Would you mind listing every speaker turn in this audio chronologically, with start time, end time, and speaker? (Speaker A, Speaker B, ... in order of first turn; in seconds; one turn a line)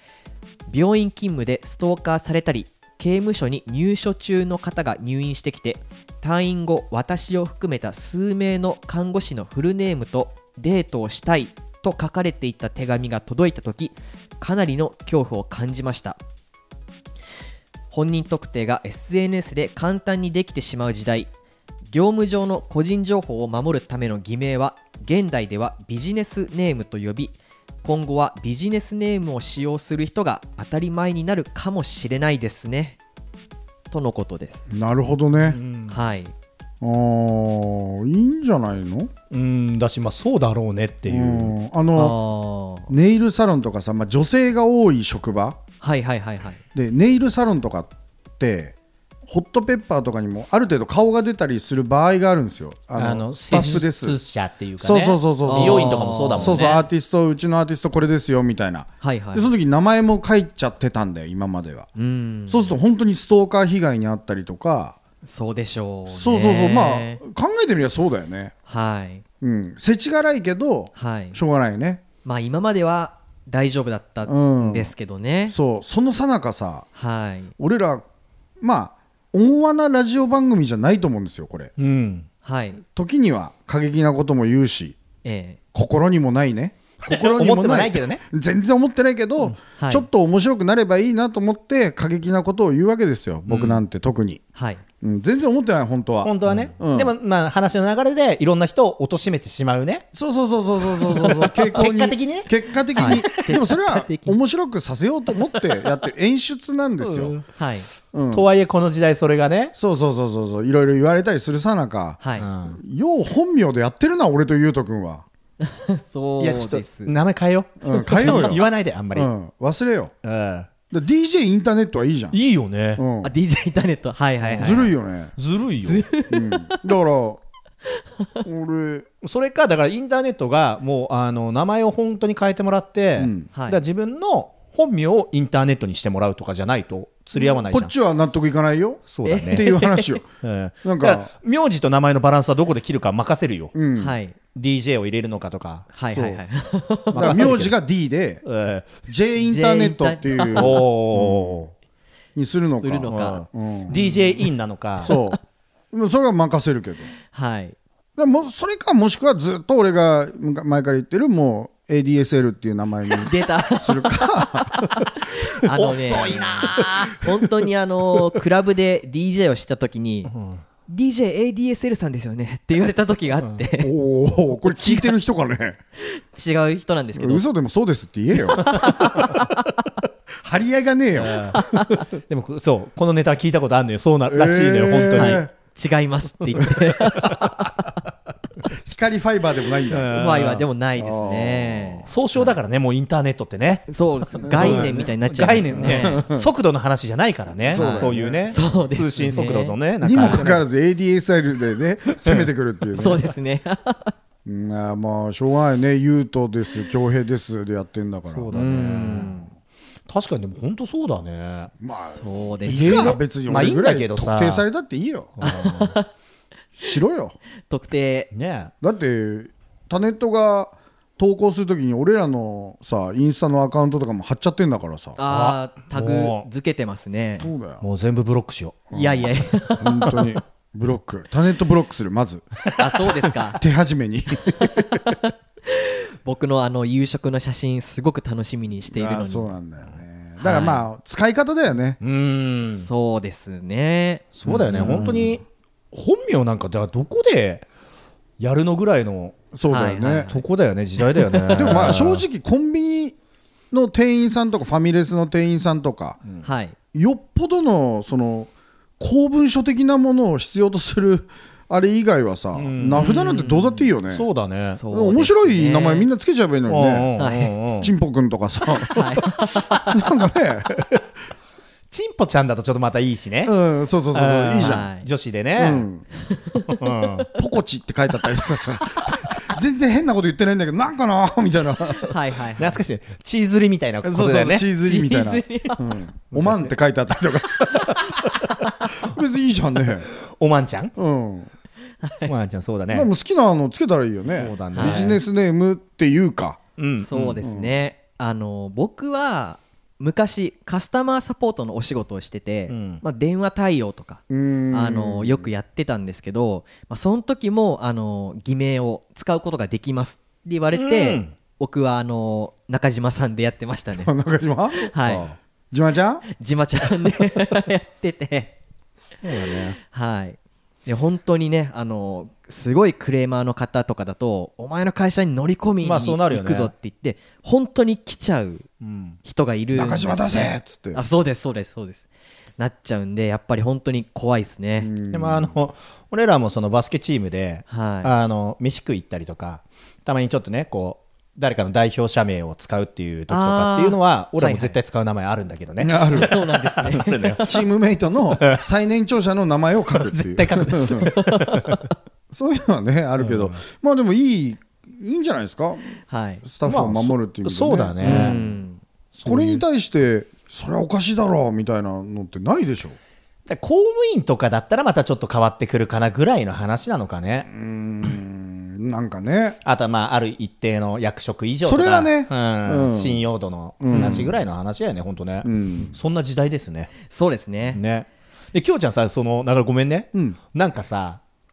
Speaker A: 0.7-16.2
Speaker A: 17.9-21.3
Speaker A: 21.9-33.0
Speaker A: 33.9-34.7
Speaker B: 34.7-35.6
Speaker C: 35.5-36.0
Speaker A: 35.9-36.3
Speaker B: 36.8-39.1
Speaker C: 39.3-41.5
Speaker B: 41.1-42.2
Speaker A: 42.0-42.9
Speaker B: 42.9-45.6
Speaker A: 45.8-46.6
Speaker B: 46.7-48.7
Speaker B: 49.3-54.2
Speaker C: 53.0-56.8
Speaker B: 54.8-61.9
Speaker A: 55.5-56.8
Speaker A: 59.0-59.5
Speaker A: 62.0-62.8
Speaker B: 62.5-65.0
Speaker A: 65.2-67.2
Speaker B: 66.1-68.5
Speaker A: 68.7-69.2
Speaker B: 69.4-72.0
Speaker A: 71.0-71.4
Speaker A: 72.2-75.5
Speaker B: 74.2-74.9
Speaker B: 75.5-76.9
Speaker A: 76.9-77.5
Speaker B: 77.6-78.0
Speaker B: 78.6-81.7
Speaker C: 81.8-82.3
Speaker A: 82.4-82.8
Speaker B: 82.8-85.0
Speaker A: 85.2-85.6
Speaker B: 85.7-94.4
Speaker C: 87.0-88.2
Speaker A: 89.8-90.0
Speaker C: 93.5-93.8
Speaker A: 94.5-94.8
Speaker B: 95.0-97.1
Speaker C: 96.2-100.1
Speaker B: 100.1-107.3
Speaker C: 100.8-103.4
Speaker A: 103.0-104.4
Speaker C: 107.0-107.5
Speaker A: 107.5-107.9
Speaker B: 108.1-108.5
Speaker C: 108.3-109.7
Speaker B: 109.7-115.2
Speaker A: 112.2-112.5
Speaker C: 112.4-112.8
Speaker A: 115.6-117.1
Speaker C: 116.4-119.3
Speaker B: 117.8-120.1
Speaker A: 118.2-118.5
Speaker C: 120.2-120.7
Speaker B: 120.9-122.4
Speaker C: 122.3-123.0
Speaker B: 123.0-123.3
Speaker A: 123.2-124.9
Speaker C: 124.4-124.8
Speaker B: 124.6-125.3
Speaker C: 125.3-126.1
Speaker A: 125.8-126.8
Speaker B: 126.3-127.4
Speaker B: 128.4-129.1
Speaker C: 129.2-137.9
Speaker B: 133.2-133.5
Speaker A: 133.5-133.8
Speaker B: 137.3-140.2
Speaker C: 139.1-139.8
Speaker A: 139.2-140.2
Speaker C: 140.4-143.7
Speaker B: 140.8-141.3
Speaker B: 143.7-144.1
Speaker A: 144.0-144.4
Speaker C: 144.5-145.9
Speaker A: 145.9-147.7
Speaker B: 146.1-146.4
Speaker C: 147.1-147.7
Speaker B: 147.1-148.4
Speaker C: 148.4-149.1
Speaker B: 149.1-151.7
Speaker A: 149.4-150.8
Speaker C: 150.5-151.6
Speaker B: 152.3-154.3
Speaker A: 152.8-153.4
Speaker C: 153.1-155.2
Speaker B: 155.0-157.1
Speaker A: 157.3-157.8
Speaker B: 158.2-165.1
Speaker A: 163.2-170.3
Speaker C: 165.7-167.2
Speaker C: 170.3-170.6
Speaker A: 170.8-173.9
Speaker B: 173.8-175.8
Speaker A: 174.7-175.1
Speaker A: 176.0-177.5
Speaker B: 177.2-179.4
Speaker A: 178.7-179.6
Speaker B: 180.4-181.6
Speaker C: 181.2-181.6
Speaker A: 181.5-182.0
Speaker C: 182.2-185.4
Speaker B: 184.3-185.5
Speaker A: 185.1-187.8
Speaker B: 188.7-190.2
Speaker C: 189.9-190.7
Speaker A: 190.1-192.5
Speaker B: 190.9-192.1
Speaker C: 192.1-200.6
Speaker A: 193.9-196.3
Speaker B: 194.4-195.1
Speaker B: 195.8-196.5
Speaker B: 197.7-198.6
Speaker A: 197.7-200.5
Speaker B: 200.0-203.3
Speaker C: 202.2-202.5
Speaker A: 202.9-204.1
Speaker B: 204.4-208.5
Speaker C: 208.3-209.4
Speaker A: 208.5-209.5
Speaker C: 210.1-211.7
Speaker B: 211.8-215.4
Speaker A: 212.1-213.2
Speaker C: 212.7-214.6
Speaker C: 215.4-215.9
Speaker A: 215.4-216.1
Speaker B: 216.8-217.3
Speaker A: 217.7-218.3
Speaker C: 218.3-218.7
Speaker B: 218.8-225.2
Speaker A: 225.2-227.5
Speaker C: 225.2-226.5
Speaker B: 227.4-227.8
Speaker C: 227.8-229.0
Speaker A: 228.9-230.3
Speaker B: 228.9-229.3
Speaker B: 229.8-232.5
Speaker A: 232.8-233.6
Speaker B: 233.6-235.1
Speaker A: 234.8-239.5
Speaker B: 238.9-242.0
Speaker A: 240.4-240.8
Speaker C: 240.4-240.7
Speaker C: 242.0-242.9
Speaker A: 242.7-245.1
Speaker C: 244.4-247.6
Speaker B: 244.4-245.4
Speaker C: 248.4-249.4
Speaker B: 249.5-250.3
Speaker A: 249.7-250.4
Speaker C: 250.3-252.2
Speaker A: 251.1-252.0
Speaker B: 251.5-253.2
Speaker B: 253.7-256.2
Speaker A: 256.4-256.7
Speaker B: 256.9-264.2
Speaker C: 262.5-264.8
Speaker A: 262.9-263.9
Speaker A: 264.7-266.1
Speaker B: 264.9-267.1
Speaker C: 266.7-267.9
Speaker A: 267.2-267.5
Speaker B: 267.8-271.0
Speaker A: 268.9-269.7
Speaker C: 271.9-273.5
Speaker B: 273.4-274.9
Speaker C: 274.1-275.9
Speaker A: 274.6-275.1
Speaker B: 275.6-276.1
Speaker A: 276.3-277.1
Speaker C: 276.7-277.3
Speaker B: 277.3-282.2
Speaker A: 281.9-282.8
Speaker C: 282.6-284.7
Speaker B: 284.0-290.1
Speaker A: 284.8-285.9
Speaker C: 286.3-286.7
Speaker C: 290.2-290.9
Speaker B: 290.9-291.5
Speaker A: 292.0-292.3
Speaker C: 292.2-293.1
Speaker B: 292.9-296.6
Speaker C: 294.3-295.2
Speaker A: 294.7-295.1
Speaker C: 296.8-297.4
Speaker A: 297.0-314.1
Speaker B: 297.4-297.7
Speaker C: 302.7-303.0
Speaker B: 304.3-305.5
Speaker C: 310.7-311.3
Speaker B: 314.0-316.2
Speaker A: 314.8-315.3
Speaker A: 316.3-318.5
Speaker C: 319.2-319.8
Speaker A: 319.9-328.7
Speaker C: 325.8-326.7
Speaker C: 328.8-329.2
Speaker A: 329.2-332.0
Speaker B: 329.7-331.0
Speaker A: 332.6-334.9
Speaker B: 334.8-335.5
Speaker C: 335.1-347.4
Speaker A: 337.7-338.1
Speaker A: 343.3-344.8
Speaker B: 345.8-346.4
Speaker A: 346.1-347.6
Speaker B: 347.4-351.1
Speaker C: 349.9-351.8
Speaker A: 351.1-351.9
Speaker B: 352.3-358.5
Speaker C: 353.2-353.6
Speaker A: 356.1-356.4
Speaker C: 356.6-358.4
Speaker A: 358.0-358.8
Speaker C: 359.1-359.6
Speaker B: 359.2-363.0
Speaker C: 363.4-367.5
Speaker B: 367.5-369.6
Speaker C: 369.6-376.9
Speaker B: 371.6-373.2
Speaker B: 373.8-374.4
Speaker B: 375.4-375.9
Speaker A: 377.1-377.8
Speaker C: 377.7-381.2